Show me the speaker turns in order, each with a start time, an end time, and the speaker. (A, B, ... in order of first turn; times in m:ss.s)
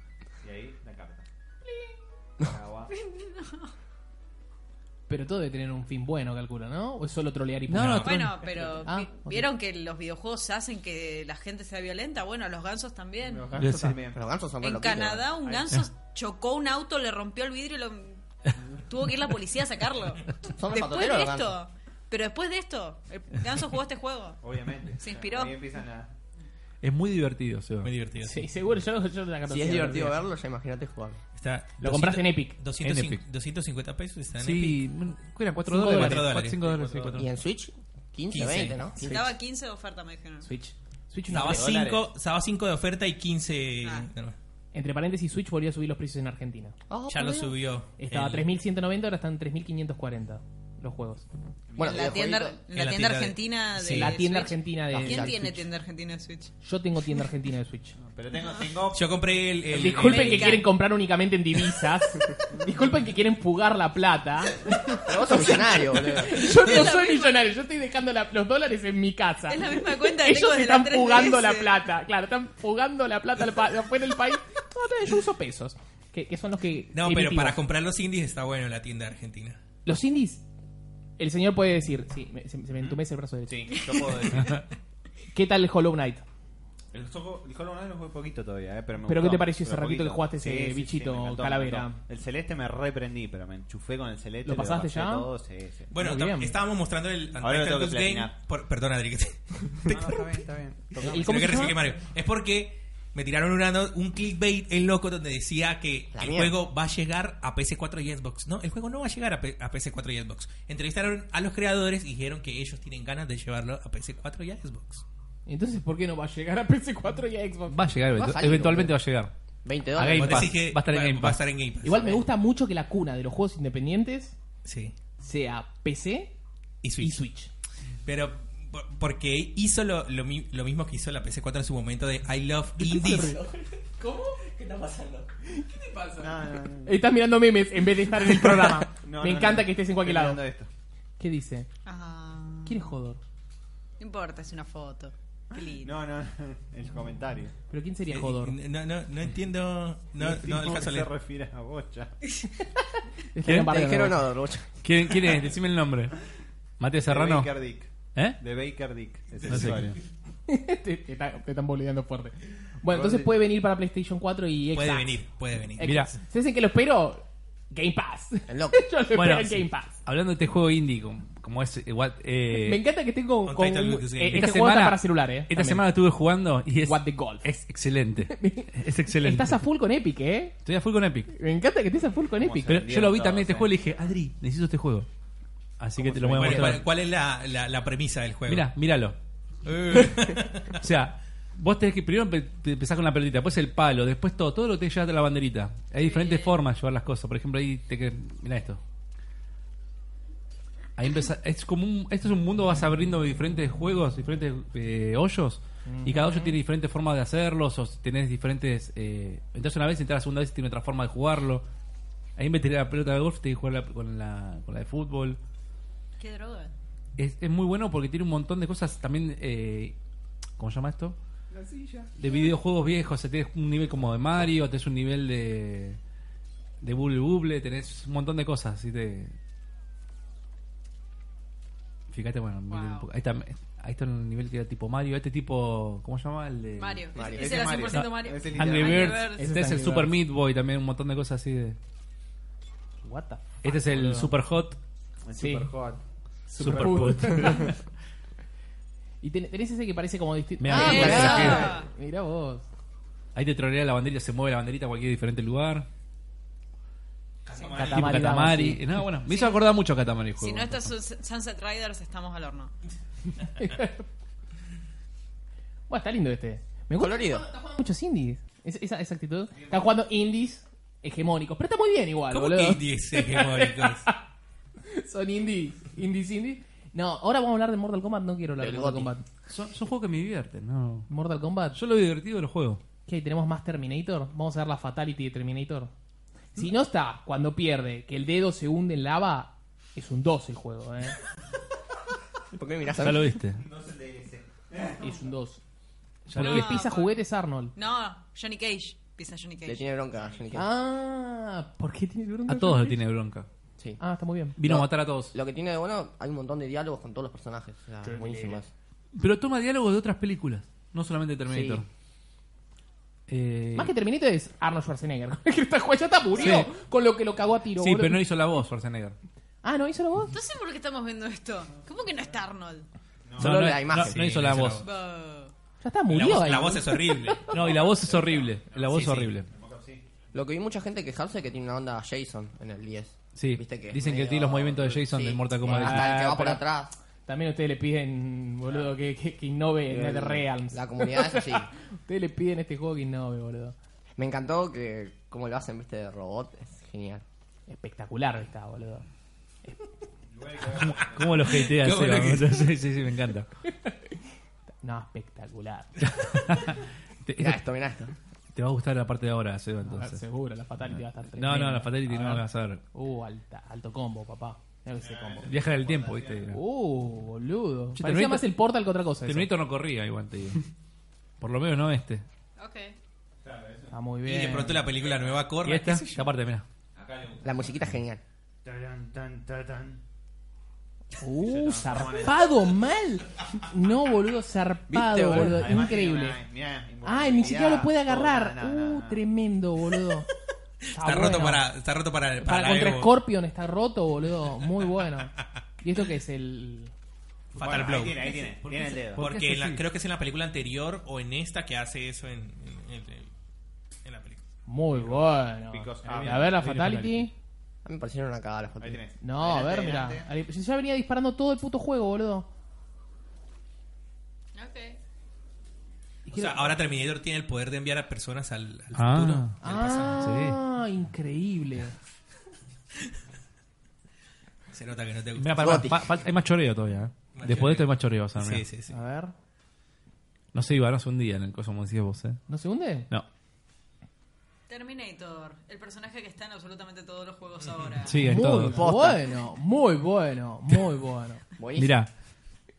0:00.4-0:01.3 A
0:02.4-0:02.9 A
0:02.9-0:03.7 B
0:05.1-0:08.2 C
0:07.7-0:08.4 D
0:07.8-0:08.3 E
0:08.0-0:13.5 B
0:08.5-0:08.8 A
0:08.8-0:09.5 C
0:13.2-0:14.3 A
0:13.6-0:14.0 D
0:14.1-0:15.3 F
0:14.6-0:18.2 B
0:15.4-0:15.8 A
0:18.8-0:24.4 B
0:20.6-0:21.6 F
0:24.4-0:26.1 A
0:25.0-0:25.6 B
0:26.8-0:27.9 D
0:27.8-0:28.5 E
0:28.2-0:30.2 C
0:29.5-0:31.2 F
0:31.4-0:34.8 E
0:31.8-0:32.6 C
0:32.8-0:33.2 D
0:34.4-0:37.3 D
0:35.7-0:36.3 C
0:35.8-0:36.6 E
0:36.6-0:37.2 A
0:37.2-0:39.0 F
0:38.3-0:38.8 E
0:39.0-0:40.5 B
0:39.0-0:39.3 C
0:40.4-0:41.8 C
0:41.3-0:44.4 E
0:41.3-0:42.1 A
0:43.8-0:44.1 B
0:44.7-0:46.8 C
0:46.9-0:47.6 F
0:47.1-0:48.5 E
0:48.0-0:51.2 C
0:51.7-0:52.2 A
0:51.8-0:52.6 F
0:51.8-0:56.5 B
0:52.7-0:54.2 E
0:53.9-0:55.6 C
0:54.9-0:55.4 F
0:56.6-0:58.0 C
0:58.0-0:59.4 A
0:58.9-1:00.6 E
0:59.7-1:17.6 C
0:59.8-1:00.7 B
1:05.0-1:06.5 F
1:06.2-1:07.4 B
1:09.5-1:11.8 B
1:16.9-1:19.6 E
1:19.9-1:20.4 C
1:21.2-1:23.8 C
1:23.5-1:24.6 A
1:25.3-1:26.3 C
1:26.9-1:35.9 A
1:29.1-1:32.0 C
1:34.4-1:35.3 C
1:35.9-1:40.2 E
1:35.9-1:36.6 C
1:37.4-1:38.4 A
1:39.9-1:41.7 A
1:40.9-1:55.0 E
1:41.0-1:41.8 C
1:46.1-1:46.6 F
1:55.5-1:57.9 C
1:57.7-1:59.3 D
1:58.2-1:58.9 F
1:59.6-2:00.6 F
2:00.0-2:01.4 D
2:00.0-2:02.2 E
2:01.8-2:04.4 C
2:04.6-2:05.0 E
2:05.2-2:06.3 C
2:06.8-2:07.2 E
2:07.0-2:07.5 C
2:08.0-2:13.4 E
2:12.8-2:20.4 C
2:16.2-2:17.0 A
2:18.9-2:20.7 A
2:21.2-2:21.7 C
2:21.9-2:22.8 B
2:22.6-2:23.2 C
2:24.0-2:26.0 B
2:25.6-2:27.6 A
2:27.7-2:28.6 C
2:28.1-2:31.1 E
2:30.2-2:32.2 A
2:32.8-2:34.2 C
2:33.4-2:33.8 D
2:33.7-2:34.7 F
2:34.8-2:36.2 D
2:36.8-2:37.5 D
2:37.0-2:40.0 A
2:38.1-2:38.4 D
2:39.4-2:40.0 D
2:40.5-2:45.2 C
2:42.9-2:43.4 A
2:44.7-2:46.1 E
2:45.8-2:50.0 C
2:45.8-2:46.1 D
2:48.5-2:48.8 F
2:49.1-2:52.8 D
2:52.5-2:55.9 C
2:53.5-2:54.5 E
2:54.3-2:59.6 D
2:56.8-2:57.5 C
2:58.3-3:00.6 C
3:00.6-3:01.3 D
3:01.3-3:02.8 C
3:02.3-3:03.7 A
3:02.6-3:05.1 D
3:05.8-3:06.9 D
3:06.0-3:06.8 A
3:06.3-3:08.7 E
3:08.5-3:09.2 D
3:09.6-3:10.8 E
3:10.8-3:18.8 D
3:16.0-3:16.5 B
3:21.0-3:31.6 D
3:25.8-3:26.6 C
3:32.4-3:35.4 D
3:36.2-3:36.7 B
3:37.2-3:40.0 D
3:40.6-3:41.2 D
3:41.5-3:42.5 A
3:42.2-3:46.0 D
3:46.8-3:49.3 D
3:52.1-3:57.1 D
3:52.7-3:53.1 B
3:56.8-3:59.5 B
3:57.2-3:57.7 F
3:57.2-3:59.3 A
3:57.9-4:01.8 D
3:59.2-4:00.1 C
4:03.0-4:04.2 C
4:03.6-4:04.8 D
4:03.9-4:04.3 A
4:05.2-4:06.0 A
4:05.4-4:05.7 C
4:06.5-4:07.8 C
4:06.6-4:07.8 D
4:06.6-4:07.1 A
4:09.2-4:12.7 C
4:10.6-4:11.8 D
4:10.7-4:11.6 F
4:10.7-4:11.9 B
4:13.4-4:15.9 D
4:17.5-4:18.3 E
4:17.6-4:19.0 C
4:17.8-4:20.9 D
4:19.3-4:19.6 B
4:20.4-4:22.7 B
4:23.4-4:24.0 C
4:25.9-4:34.2 C
4:27.0-4:27.4 F
4:29.5-4:29.9 A
4:32.3-4:34.1 E
4:34.8-4:39.2 C
4:38.6-4:39.1 F
4:39.5-4:41.1 D
4:41.1-4:41.8 C
4:41.7-4:42.8 D
4:43.1-4:45.9 C
4:46.6-4:51.2 C
4:52.5-4:53.3 F
4:53.0-4:53.6 D
4:53.3-4:55.3 A
4:55.0-4:55.6 C
4:56.3-4:56.8 D
4:56.3-4:57.7 C
4:56.4-4:57.2 B
4:57.8-4:59.9 B
4:59.6-5:00.7 F
5:00.1-5:00.6 A
5:00.5-5:03.0 C
5:02.5-5:03.5 D
5:04.0-5:04.6 C
5:04.6-5:05.4 D
5:04.6-5:08.7 F
5:08.0-5:08.6 C
5:09.2-5:11.9 D
5:11.5-5:11.8 F
5:13.3-5:13.9 D
5:13.8-5:18.2 C
5:16.4-5:16.7 D
5:17.8-5:19.2 D
5:19.6-5:20.4 C
5:20.3-5:22.9 B
5:23.3-5:23.6 A
5:23.4-5:24.3 F
5:23.4-5:24.9 D
5:23.9-5:24.9 E
5:24.8-5:25.5 B
5:25.8-5:27.6 C
5:26.1-5:27.6 E
5:27.5-5:29.5 D
5:27.5-5:30.0 A
5:28.9-5:29.3 E
5:30.3-5:36.9 F
5:33.4-5:36.6 D
5:35.7-5:36.2 C
5:37.3-5:43.8 C
5:39.9-5:41.7 F
5:44.2-5:47.2 F
5:47.7-5:49.1 C
5:50.3-5:51.5 A
5:50.8-5:53.5 D
5:51.5-5:52.6 E
5:53.8-5:54.1 C
5:54.8-5:56.6 C
5:56.1-5:57.6 D
5:57.4-5:58.1 F
5:58.5-6:00.2 D
5:59.8-6:05.5 C
6:01.3-6:02.8 D
6:05.0-6:06.6 A
6:05.5-6:06.6 D
6:06.5-6:09.5 C
6:08.0-6:08.5 D
6:09.3-6:10.6 D
6:11.4-6:12.2 D
6:12.6-6:13.0 B
6:13.4-6:14.0 A
6:13.9-6:14.9 C
6:14.2-6:16.2 E
6:15.0-6:15.4 A
6:15.6-6:16.6 D
6:17.0-6:17.8 A
6:17.4-6:18.2 F
6:18.6-6:20.0 A
6:21.1-6:26.4 C
6:21.4-6:22.5 A
6:24.9-6:25.7 F
6:25.4-6:29.2 A
6:27.0-6:30.3 C
6:30.9-6:31.6 C
6:31.0-6:33.2 E
6:32.4-6:36.9 C
6:37.6-6:38.4 E
6:37.6-6:39.3 A
6:38.9-6:39.8 D
6:39.2-6:43.3 E
6:44.0-6:44.4 E
6:44.7-6:47.3 C
6:44.9-6:46.7 A
6:46.1-6:47.3 D
6:47.8-6:49.0 F
6:48.8-6:50.3 A
6:49.2-6:52.5 C
6:54.6-6:55.0 B
6:56.3-6:56.8 C
6:56.3-7:00.3 E
6:58.9-6:59.6 D
6:59.6-7:02.0 C
7:00.2-7:00.6 D
7:04.7-7:05.8 E
7:05.4-7:08.6 D
7:05.6-7:06.0 F
7:07.3-7:09.0 E
7:08.9-7:09.3 C
7:10.5-7:12.4 D
7:12.5-7:13.1 C
7:14.7-7:18.2 B
7:18.0-7:18.9 D
7:18.2-7:21.4 C
7:18.6-7:19.2 F
7:21.6-7:21.9 F
7:21.8-7:22.1 D